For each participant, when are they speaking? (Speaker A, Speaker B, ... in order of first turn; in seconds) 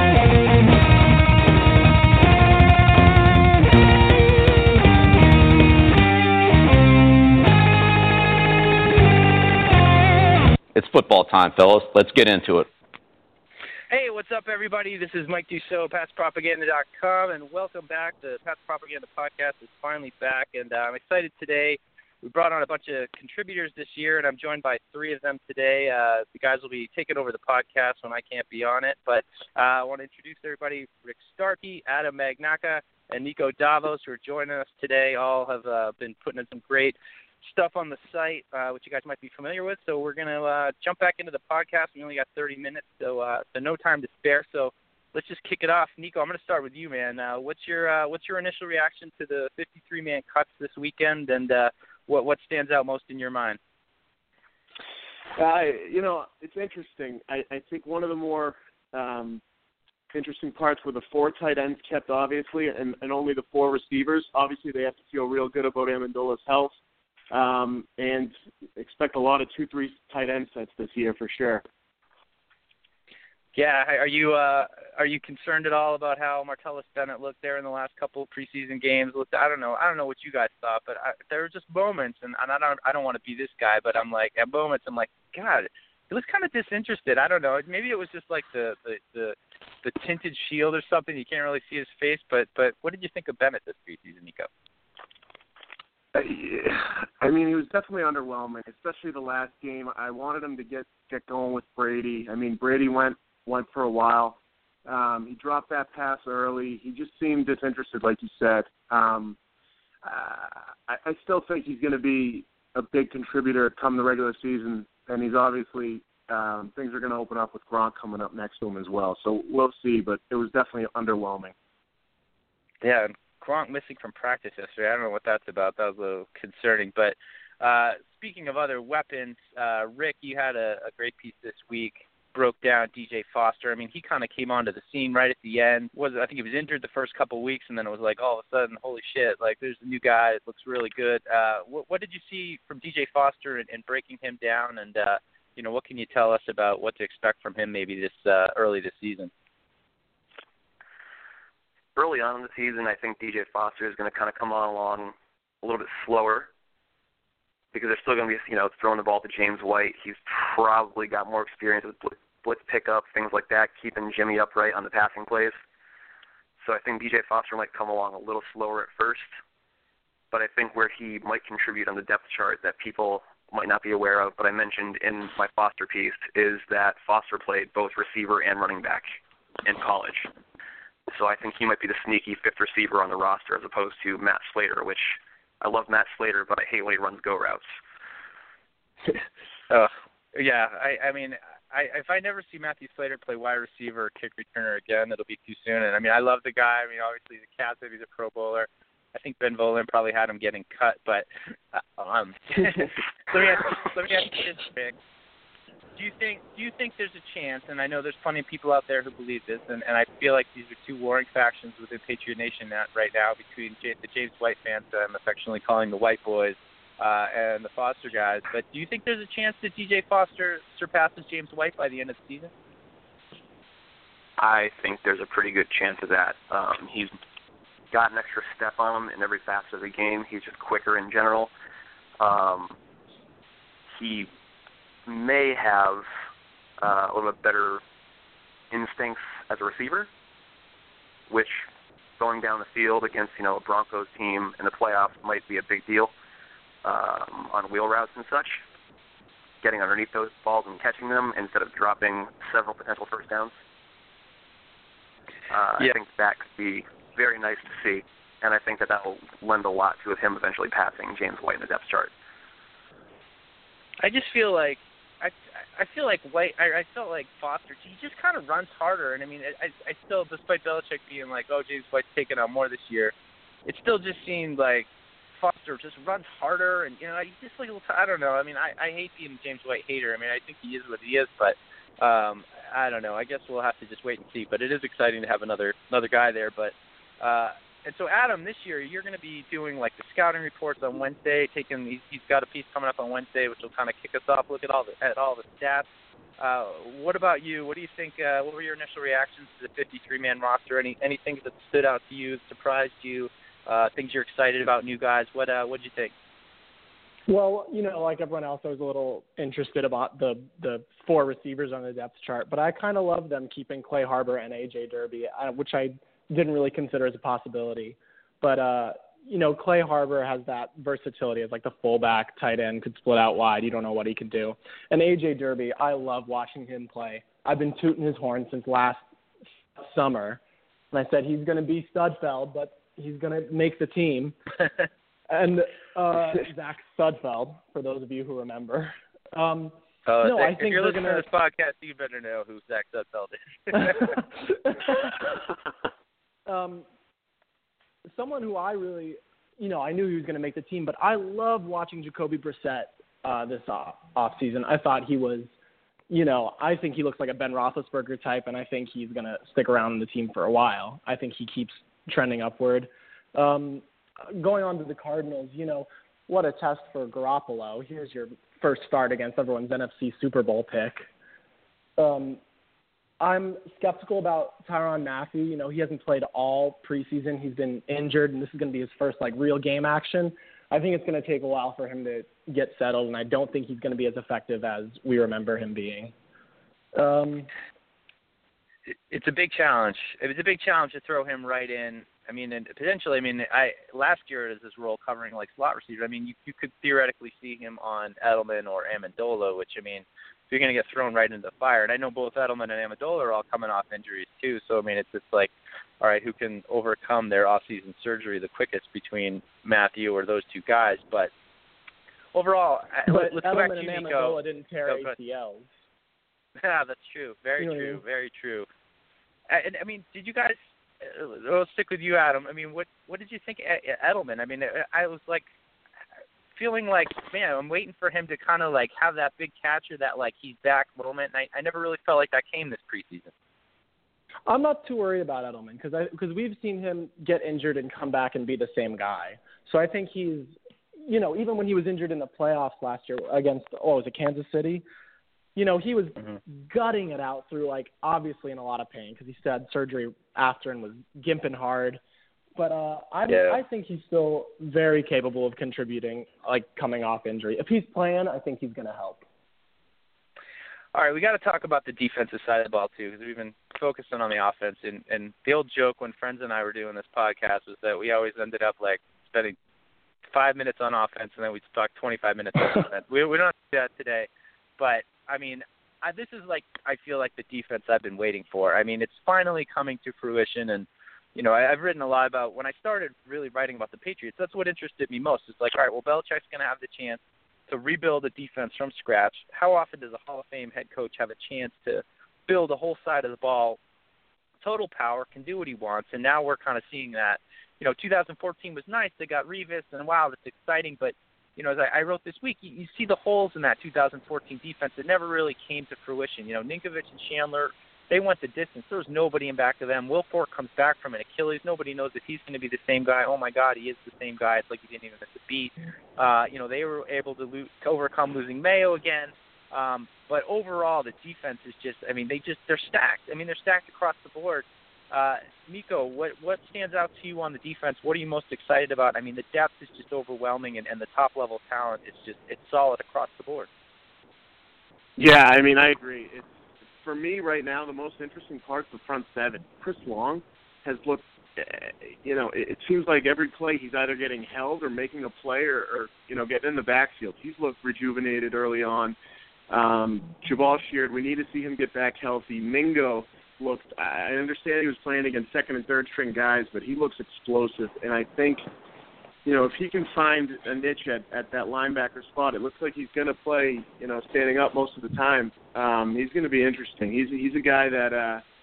Speaker A: 10.7-12.7
Speaker B: 13.9-53.6, 73.5-94.5, 122.8-149.3, 189.7-204.9, 205.9-222.5, 264.0-273.1, 273.6-295.9, 296.4-306.1, 340.1-344.1, 389.1-411.3, 412.3-415.1, 416.6-418.7, 419.5-425.4, 426.6-433.3, 453.3-453.6, 460.9-469.6, 470.3-493.8, 494.6-533.7
Speaker C: 55.4-59.4, 60.1-66.8, 67.3-71.6, 96.1-109.4, 110.0-121.5, 535.2-536.5, 537.0-549.1, 549.7-558.6, 559.4-568.4
Speaker D: 151.9-156.5, 157.7-165.6, 166.6-169.3, 170.3-179.0, 179.6-180.3, 181.1-187.7, 224.4-227.1, 227.9-231.5, 232.2-232.8, 233.9-234.3, 235.1-236.1, 236.8-237.8, 238.7-240.1, 241.3-241.7, 242.2-246.1, 246.8-248.6, 249.6-253.5, 255.5-262.1
Speaker E: 307.3-329.0, 329.8-334.4, 335.3-341.2, 343.9-345.4, 346.4-346.9, 348.1-355.5, 356.1-371.1, 372.0-372.4, 373.2-386.1, 386.9-387.5, 413.1-415.7, 417.6-418.0, 434.5-444.8, 445.6-452.0, 452.6-459.2